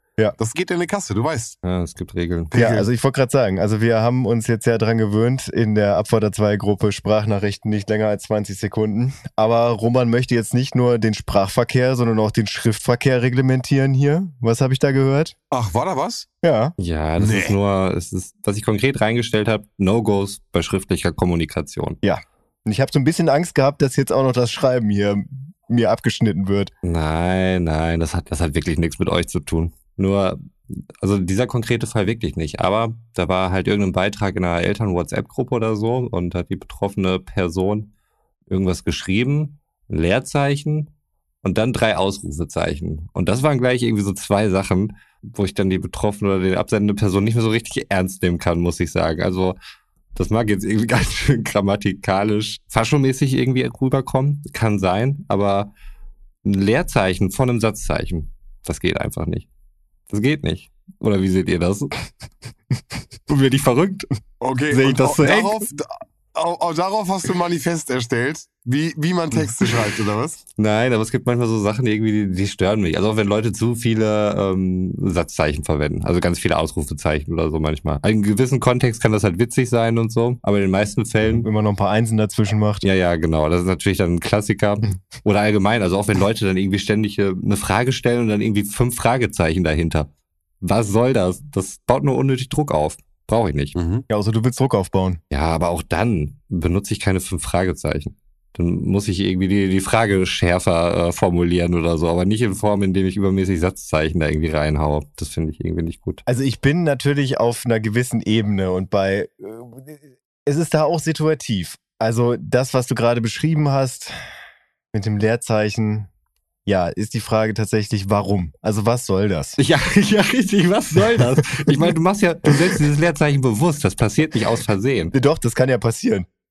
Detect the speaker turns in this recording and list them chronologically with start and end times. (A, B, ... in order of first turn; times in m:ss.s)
0:00.4-0:01.6 A
0:01.6-0:02.5 B
0:02.5-0:02.9 A
0:02.5-0:15.4 C
0:15.5-0:16.3 A
0:16.4-0:16.7 C
0:16.8-0:22.0 B
0:17.2-0:17.6 A
0:22.0-0:26.7 C
0:26.8-0:37.9 B
0:38.5-0:40.9 B
0:41.4-0:49.6 B
0:50.1-0:55.7 B
0:56.4-0:59.5 B
1:00.1-1:02.0 B
1:03.3-1:04.1 B
1:04.4-1:10.4 A
1:04.7-1:05.7 C
1:10.6-1:21.5 B
1:21.3-1:22.8 C
1:22.8-1:30.1 B
1:30.6-1:33.8 B
1:33.8-1:34.0 A
1:34.1-1:35.2 C
1:35.3-1:46.2 B
1:46.2-1:54.3 C
1:54.9-1:56.1 C
1:56.6-1:59.6 C
1:59.6-2:05.1 B
2:01.1-2:01.7 C
2:05.1-2:06.3 C